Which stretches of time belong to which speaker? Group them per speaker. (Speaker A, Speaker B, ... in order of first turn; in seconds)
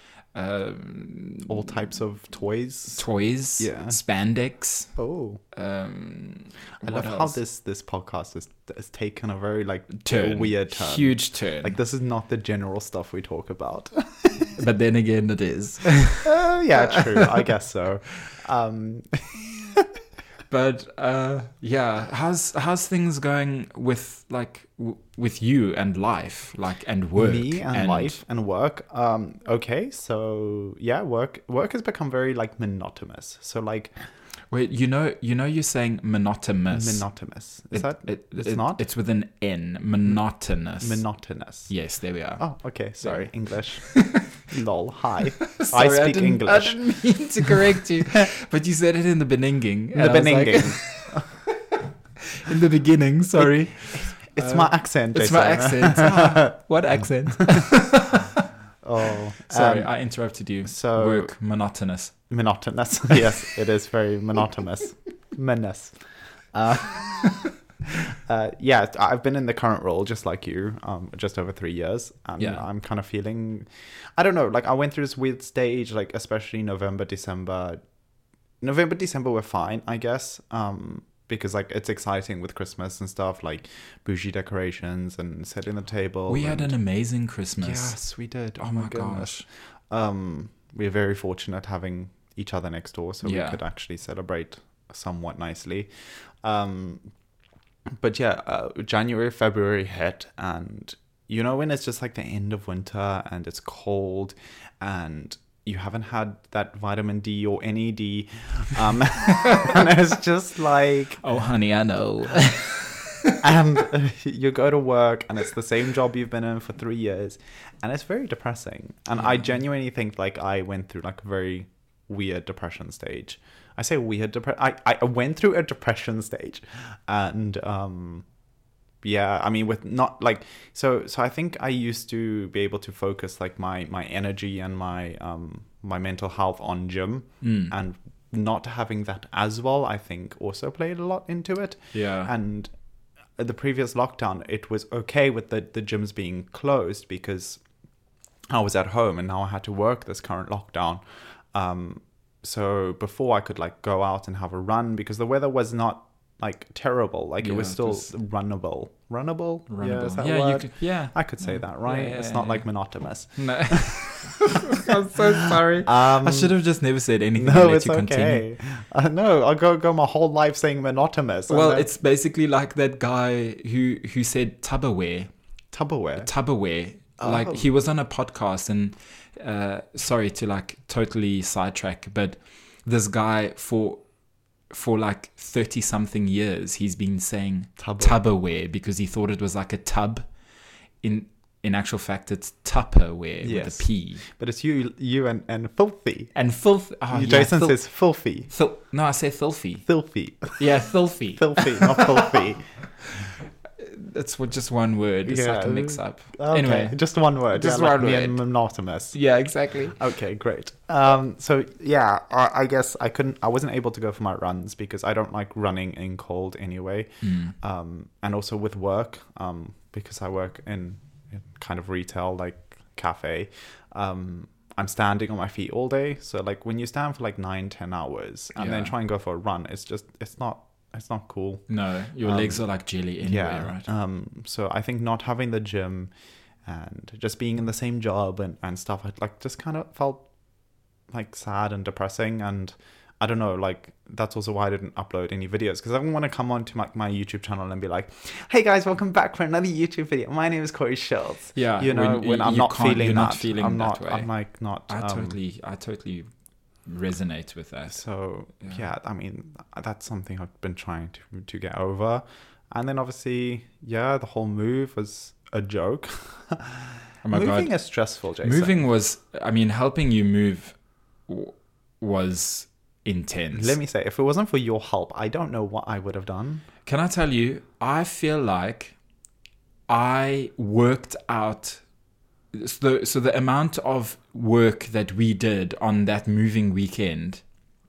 Speaker A: 0.3-1.7, 3.0-4.9, 5.5-7.4, 10.0-11.7, 14.6-17.4, 20.5-28.2, 34.5-37.0, 37.7-41.0, 41.7-42.4, 43.0-43.3, 43.8-44.3, 45.4-58.4, 59.5-62.1, 72.4-72.6, 86.3-88.0, 88.6-89.4, 93.2-93.6, 109.4-109.8, 111.2-113.5, 137.4-137.7, 141.9-142.3, 157.4-158.1, 159.7-162.7, 163.4-168.4, 171.5-175.3, 176.2-184.0, 184.7-190.2, 191.0-194.2, 196.3-197.8, 198.5-199.9, 200.6-202.3, 203.8-207.0, 207.5-208.4, 209.1-210.0, 217.2-217.5, 228.6-228.9, 231.7-233.9, 251.5-254.3, 254.9-256.2, 256.8-258.0, 267.2-267.7, 268.4-270.8, 271.3-273.8, 276.9-278.9, 279.9-281.8, 282.5-287.4
Speaker B: 1.4-3.0, 3.6-4.0, 5.0-5.4, 6.8-14.6, 16.2-19.9, 27.2-34.0, 36.7-38.8, 40.8-41.7, 42.4-47.5, 49.9-51.3, 53.4-56.6, 57.4-57.7, 58.8-59.9, 60.6-61.3, 62.3-77.8, 78.6-86.7, 87.6-95.9, 96.4-97.0, 98.0-111.2, 113.4-128.2, 129.0-142.7, 143.3-147.6, 148.5-164.5, 165.8-166.5, 167.4-171.9, 175.7-176.3, 177.2-177.7, 187.8-188.2, 193.4-196.3, 197.1-198.5, 199.8-200.6, 201.3-202.7, 205.2-209.2, 209.9-231.7, 232.2-232.6, 233.2-236.1, 236.6-240.2, 241.1-255.4, 257.9-268.8, 273.5-276.6